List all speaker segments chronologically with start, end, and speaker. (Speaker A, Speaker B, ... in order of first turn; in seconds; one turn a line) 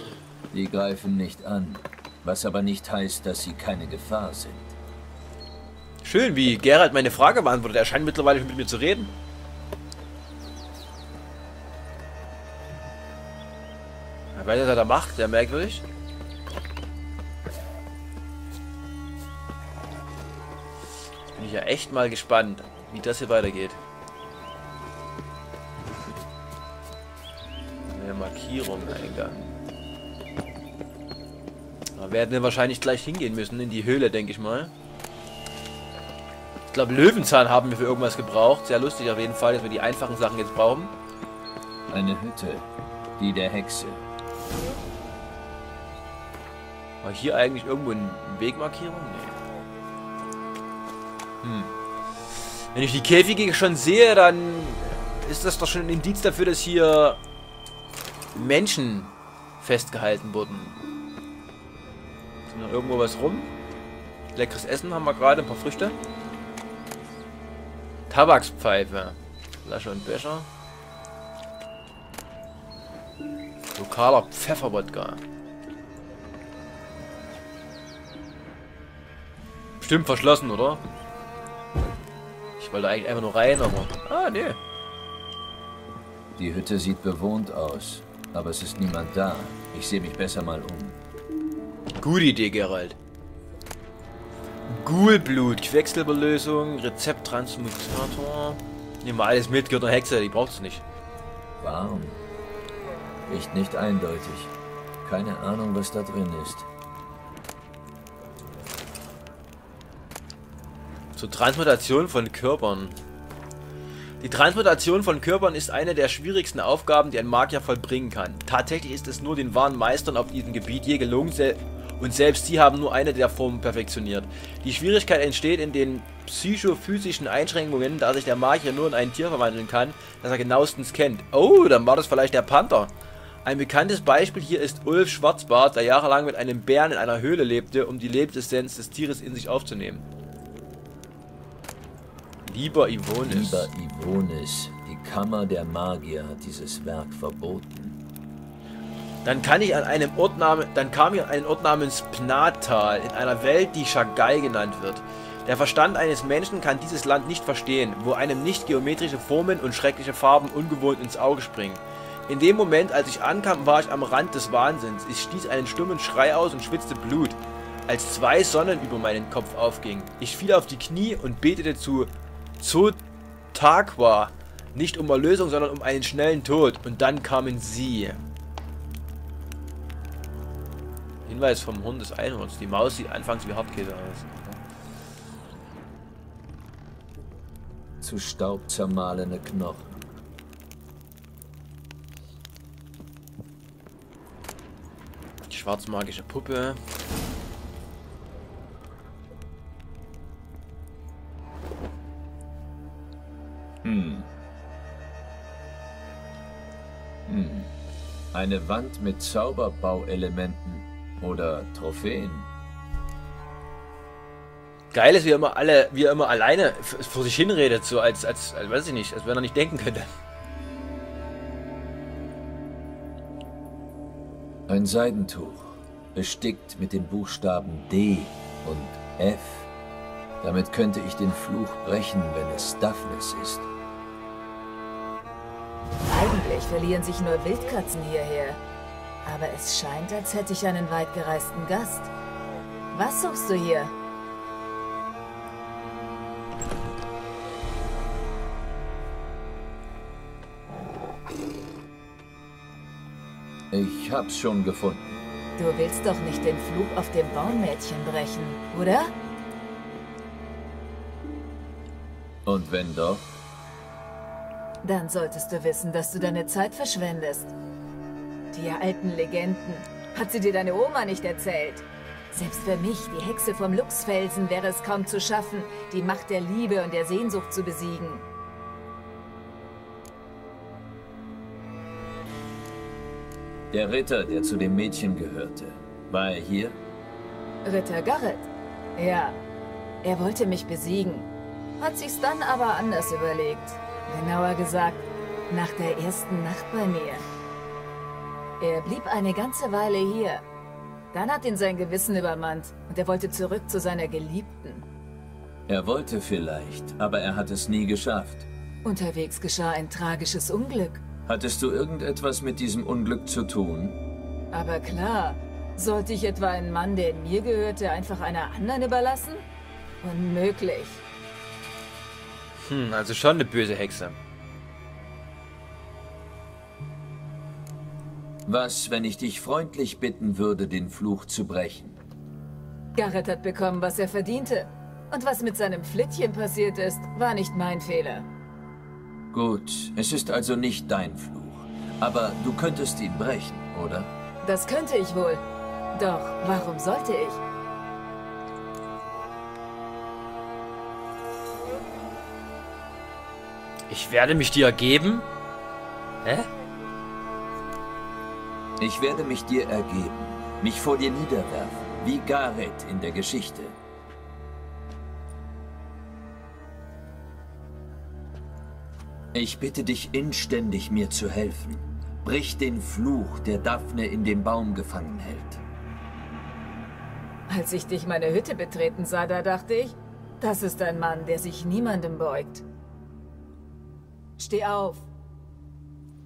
Speaker A: 0.5-4.7
Speaker B: 6.0-9.2
Speaker B: 14.3-15.8
Speaker B: 21.3-23.8
Speaker B: 27.8-29.6
Speaker B: 32.0-34.7
Speaker B: 36.7-41.0
Speaker A: 41.9-42.7
Speaker A: 43.2-44.0
Speaker B: 47.0-49.4
Speaker B: 51.4-51.7
Speaker B: 52.7-57.2
Speaker B: 58.3-60.8
Speaker B: 62.5-63.5
Speaker B: 64.3-66.0
Speaker B: 68.1-70.5
Speaker B: 73.7-75.2
Speaker B: 79.8-80.8
Speaker B: 82.6-84.6
Speaker A: 86.3-91.0
Speaker B: 92.0-93.0
Speaker B: 94.7-100.8
Speaker A: 101.6-102.2
Speaker A: 103.3-106.7
Speaker B: 111.1-113.0
Speaker B: 114.2-132.9
Speaker B: 133.4-140.0
Speaker B: 142.4-143.7
Speaker A: 143.2-148.0
Speaker B: 149.2-173.0
Speaker B: 173.5-178.2
Speaker B: 181.2-184.6
Speaker A: 188.0-190.0
Speaker B: 195.5-196.8
Speaker A: 203.8-204.3
Speaker A: 207.3-207.7
Speaker A: 208.3-212.5
Speaker B: 214.9-220.1
Speaker A: 224.7-229.7
Speaker A: 230.4-233.7
Speaker C: 236.1-238.6
Speaker C: 239.2-242.1
Speaker C: 242.9-243.9
Speaker A: 253.7-255.2
Speaker C: 255.6-259.1
Speaker A: 262.4-263.3
Speaker C: 264.8-267.5
Speaker C: 268.5-278.2
Speaker A: 283.7-286.8
Speaker C: 287.6-289.4
Speaker C: 290.0-297.2
Speaker C: 298.6-300.4
Speaker C: 301.1-304.9
Speaker A: 305.7-308.5
Speaker C: 308.8-311.0
Speaker A: 311.2-314.0
Speaker C: 314.5-319.4
Speaker C: 320.0-321.0
Speaker B: 322.6-324.2
Speaker A: 328.4-331.9
Speaker C: 332.9-338.2
Speaker A: 339.3-344.1
Speaker C: 344.4-345.4
Speaker C: 345.9-347.4
Speaker B: 353.9-355.3
Speaker B: 356.2-356.5
Speaker A: 358.8-363.7
Speaker A: 369.3-375.6
Speaker C: 377.5-382.6
Speaker C: 384.4-385.1